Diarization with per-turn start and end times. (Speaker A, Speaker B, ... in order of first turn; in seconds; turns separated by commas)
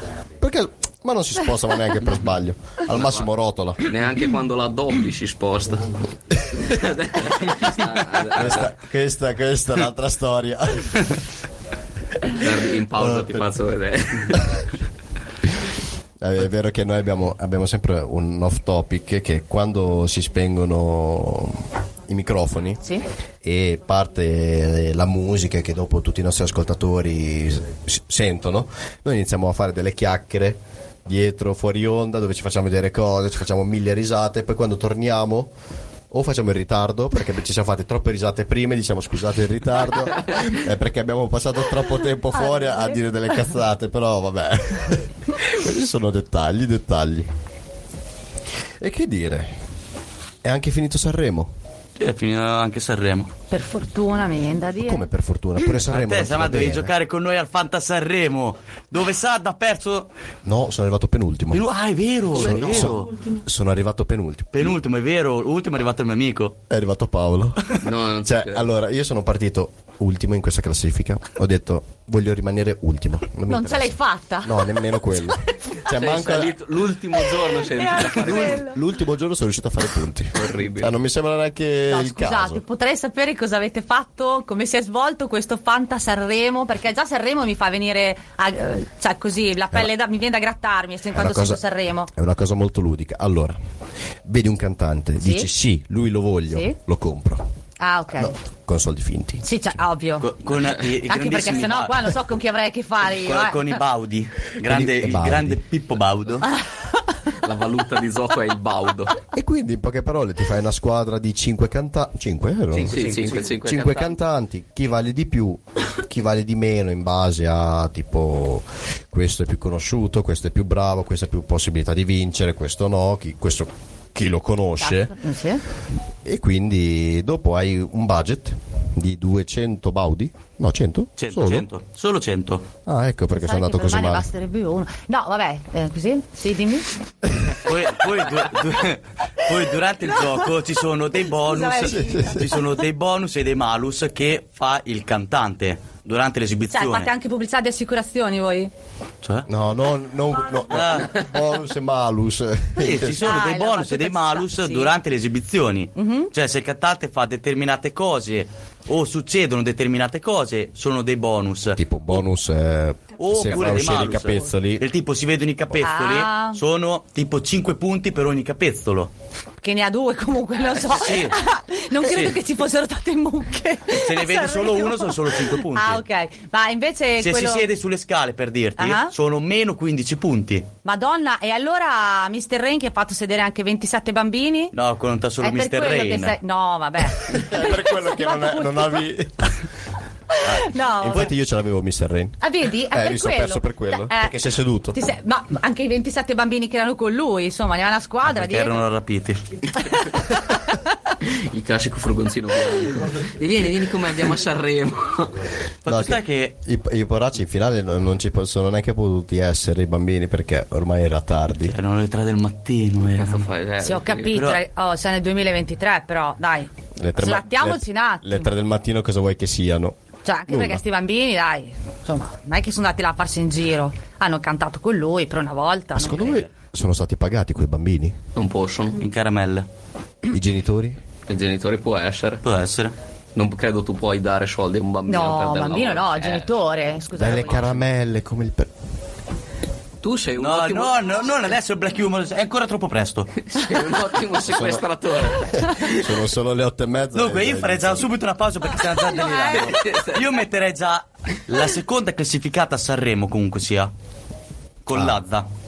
Speaker A: 0.4-3.9, Speaker B: 2.9-3.3, Speaker B: 3.8-8.7, Speaker A: 8.3-11.1, Speaker B: 12.2-14.6, Speaker A: 13.0-13.4, Speaker A: 16.2-22.8, Speaker A: 23.4-35.5, Speaker A: 36.1-47.3, Speaker C: 42.4-43.0, Speaker A: 48.8-49.5, Speaker A: 50.4-51.5, Speaker D: 52.0-53.3, Speaker C: 53.5-55.0, Speaker A: 54.8-56.9, Speaker D: 55.7-60.1, Speaker A: 60.4-61.6, Speaker D: 61.5-63.1, Speaker A: 62.3-64.7, Speaker D: 64.5-66.6, Speaker A: 66.7-67.6, Speaker B: 67.8-68.7, Speaker A: 68.2-76.6, Speaker C: 73.5-74.7, Speaker B: 75.8-78.7, Speaker C: 77.7-78.8, Speaker A: 78.2-82.6, Speaker B: 80.3-80.9, Speaker C: 81.9-92.1, Speaker A: 91.1-93.6, Speaker A: 94.2-97.5, Speaker C: 95.2-95.5, Speaker C: 97.8-98.3, Speaker A: 98.1-99.4, Speaker C: 99.4-100.3, Speaker D: 100.2-102.1, Speaker C: 101.0-103.8, Speaker D: 103.2-106.5, Speaker A: 104.6-105.6, Speaker B: 107.4-109.2, Speaker A: 109.3-125.1, Speaker B: 112.8-114.2, Speaker C: 124.8-125.6, Speaker A: 126.2-131.7, Speaker D: 131.2-132.7, Speaker A: 132.8-134.3, Speaker C: 133.3-137.0, Speaker D: 137.6-147.1, Speaker C: 141.4-142.6, Speaker A: 141.9-142.5, Speaker C: 146.7-148.7, Speaker D: 149.2-149.5, Speaker A: 149.5-153.3, Speaker D: 150.7-151.2, Speaker D: 152.8-162.2, Speaker C: 153.1-154.9, Speaker C: 155.9-156.3, Speaker A: 161.8-164.8, Speaker D: 163.2-169.1, Speaker C: 165.8-166.6, Speaker C: 169.6-177.7, Speaker D: 170.8-171.3, Speaker D: 172.0-172.3, Speaker D: 174.0-176.0, Speaker D: 177.2-180.7, Speaker C: 178.8-179.1, Speaker C: 180.8-184.7, Speaker D: 184.7-186.4, Speaker C: 185.4-189.0, Speaker A: 187.2-189.6, Speaker C: 190.3-191.3, Speaker A: 190.4-195.0, Speaker C: 192.4-194.3, Speaker C: 194.9-198.8, Speaker D: 198.2-199.4, Speaker B: 201.2-205.5, Speaker D: 205.8-206.5, Speaker A: 205.9-211.8, Speaker D: 211.7-213.5, Speaker B: 213.2-214.4, Speaker C: 213.8-218.5, Speaker D: 214.3-214.6, Speaker A: 217.0-220.8, Speaker C: 220.2-226.4, Speaker A: 225.9-228.2, Speaker B: 228.3-229.0, Speaker D: 229.0-229.7, Speaker A: 230.3-231.0, Speaker B: 231.3-232.4, Speaker D: 232.4-232.9, Speaker B: 233.3-236.5, Speaker C: 235.1-237.8, Speaker A: 237.1-238.7, Speaker B: 240.0-240.9, Speaker D: 240.4-243.3, Speaker B: 243.4-245.8, Speaker A: 244.4-244.8, Speaker A: 245.5-248.1, Speaker D: 247.1-253.9, Speaker C: 249.0-249.9, Speaker B: 249.5-250.2, Speaker D: 254.8-255.4, Speaker A: 254.9-255.2